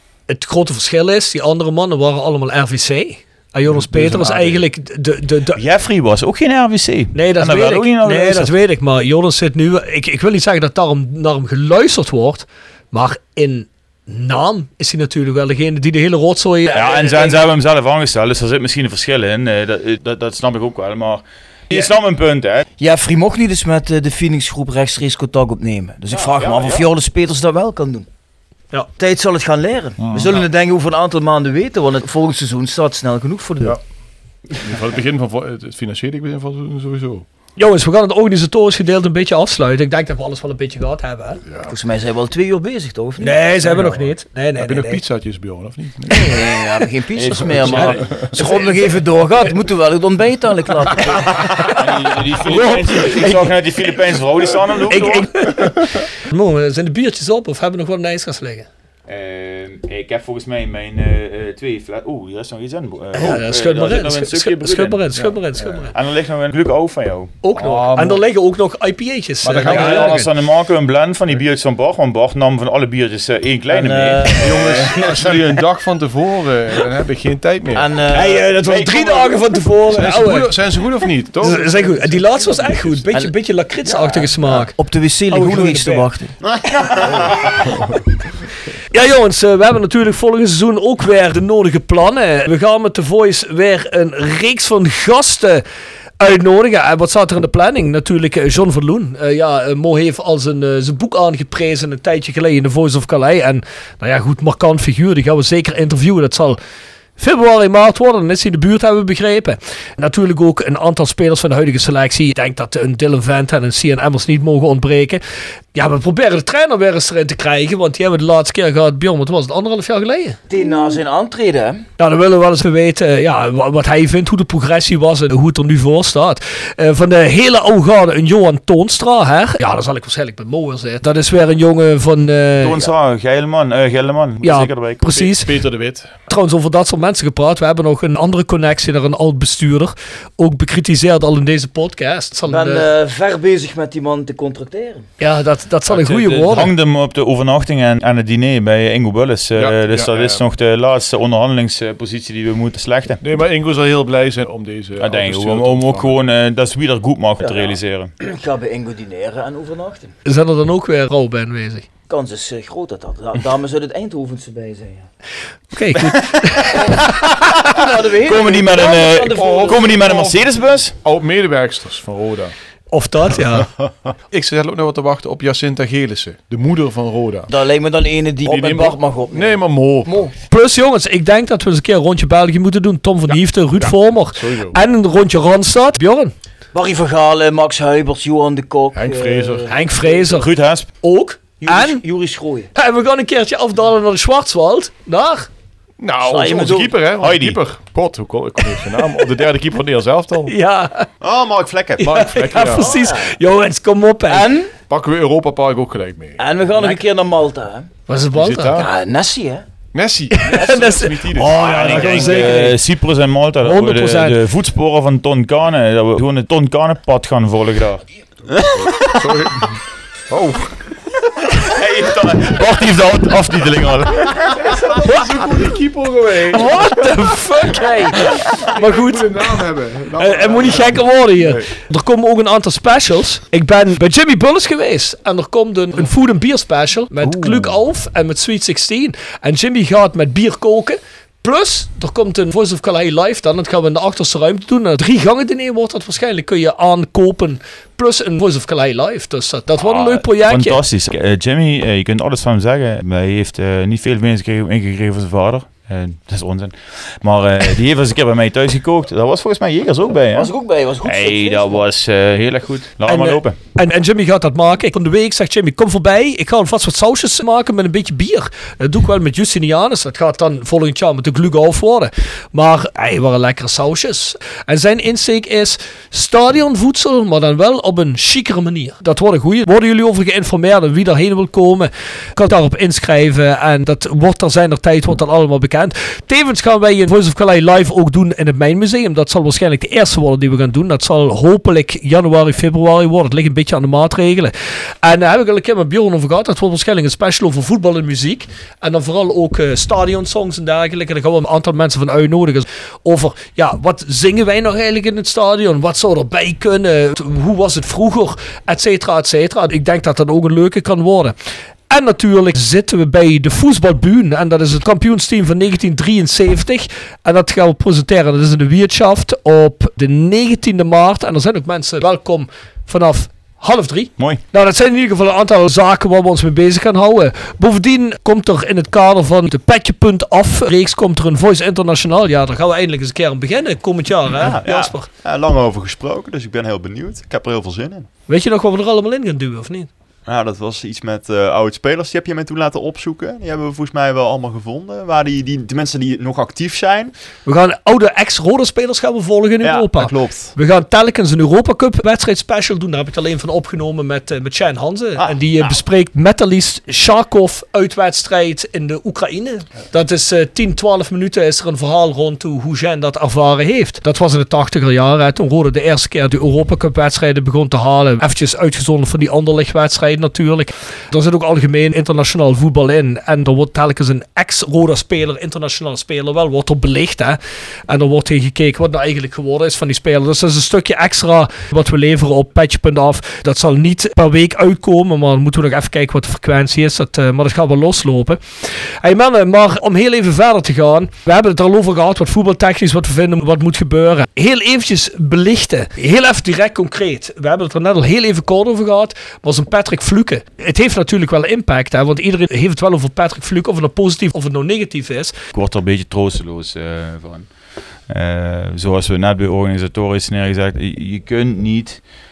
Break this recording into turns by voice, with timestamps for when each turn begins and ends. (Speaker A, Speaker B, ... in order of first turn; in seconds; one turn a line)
Speaker A: 0.3-5.6
Speaker B: 3.7-4.7
Speaker C: 5.5-8.5
Speaker A: 7.1-17.4
Speaker C: 16.7-22.7
Speaker D: 22.8-28.1
Speaker C: 26.1-26.9
Speaker D: 29.0-33.8
Speaker B: 30.0-30.4
Speaker B: 34.5-37.3
Speaker A: 37.6-41.4
Speaker B: 41.5-41.7
Speaker D: 41.7-43.4
Speaker A: 43.2-45.0
Speaker B: 43.6-46.5
Speaker D: 46.1-51.7
Speaker C: 47.2-48.3
Speaker B: 47.7-48.3
Speaker A: 48.4-48.7
Speaker C: 51.5-55.5
Speaker A: 52.5-53.5
Speaker A: 54.9-58.7
Speaker C: 59.1-65.0
Speaker A: 63.1-65.9
Speaker B: 65.1-65.9
Speaker C: 65.9-67.4
Speaker A: 67.4-70.3
Speaker B: 67.5-68.3
Speaker B: 69.4-70.2
Speaker C: 69.7-75.4
Speaker D: 73.7-74.9
Speaker B: 74.4-77.9
Speaker D: 77.8-78.4
Speaker A: 78.1-80.5
Speaker C: 78.6-79.6
Speaker B: 79.9-83.1
Speaker A: 81.4-84.8
Speaker B: 83.8-84.7
Speaker D: 84.8-86.3
Speaker A: 85.3-86.1
Speaker E: 86.4-87.3
Speaker B: 87.7-88.0
Speaker A: 88.9-95.6
Speaker A: 96.2-106.6
Speaker A: 107.2-115.2
Speaker A: 115.7-120.4
Speaker D: 120.5-121.8
Speaker A: 122.0-132.8
Speaker C: 132.6-135.2
Speaker A: 134.4-135.5
Speaker B: 135.1-136.2
Speaker A: 136.3-142.8
Speaker D: 142.5-145.1
Speaker A: 145.2-146.7
Speaker C: 145.9-153.2
Speaker B: 149.6-150.4
Speaker B: 153.2-156.2
Speaker C: 155.0-158.1
Speaker D: 157.4-160.1
Speaker A: 160.2-161.8
Speaker D: 162.1-165.1
Speaker A: 165.7-166.8
Speaker C: 166.0-170.9
Speaker D: 167.7-170.1
Speaker B: 169.3-172.5
Speaker A: 172.9-173.7
Speaker B: 174.3-177.5
Speaker D: 177.5-180.3
Speaker B: 178.4-180.3
Speaker A: 180.5-186.3
Speaker B: 183.3-184.8
Speaker D: 186.7-189.7
Speaker B: 188.9-189.7
Speaker A: 189.7-190.5
Speaker C: 190.2-190.9
Speaker A: 191.0-192.0
Speaker D: 191.7-192.7
Speaker A: 192.8-195.5
Speaker B: 196.0-200.5
Speaker D: 196.2-196.9
Speaker C: 197.2-197.6
Speaker A: 200.5-201.1
Speaker E: 201.2-202.1
Speaker A: 202.0-204.5
Speaker B: 202.0-202.9
Speaker D: 202.8-203.2
Speaker D: 204.3-204.7
Speaker B: 204.9-206.4
Speaker D: 206.4-207.9
Speaker A: 208.1-208.8
Speaker B: 208.3-208.9
Speaker D: 208.8-209.7
Speaker B: 209.9-212.7
Speaker A: 210.4-212.8
Speaker C: 211.6-218.1
Speaker A: 213.6-214.4
Speaker C: 218.7-219.2
Speaker B: 219.1-220.9
Speaker C: 221.5-224.9
Speaker B: 224.7-227.1
Speaker A: 226.5-229.3
Speaker B: 228.3-231.7
Speaker A: 230.2-250.8
Speaker C: 237.3-237.6
Speaker C: 249.8-260.5
Speaker D: 260.4-261.8
Speaker C: 261.0-263.6
Speaker A: 263.1-294.5
Speaker A: 295.0-311.4
Speaker A: 311.9-335.1
Speaker E: 334.4-338.1
Speaker A: 338.3-339.9
Speaker E: 340.3-347.1
Speaker A: 347.4-377.4
Speaker E: 349.6-350.5
Speaker E: 355.2-355.8
Speaker A: 377.9-388.4
Speaker A: 389.0-405.4
Speaker C: 405.5-407.5
Speaker C: 408.1-412.0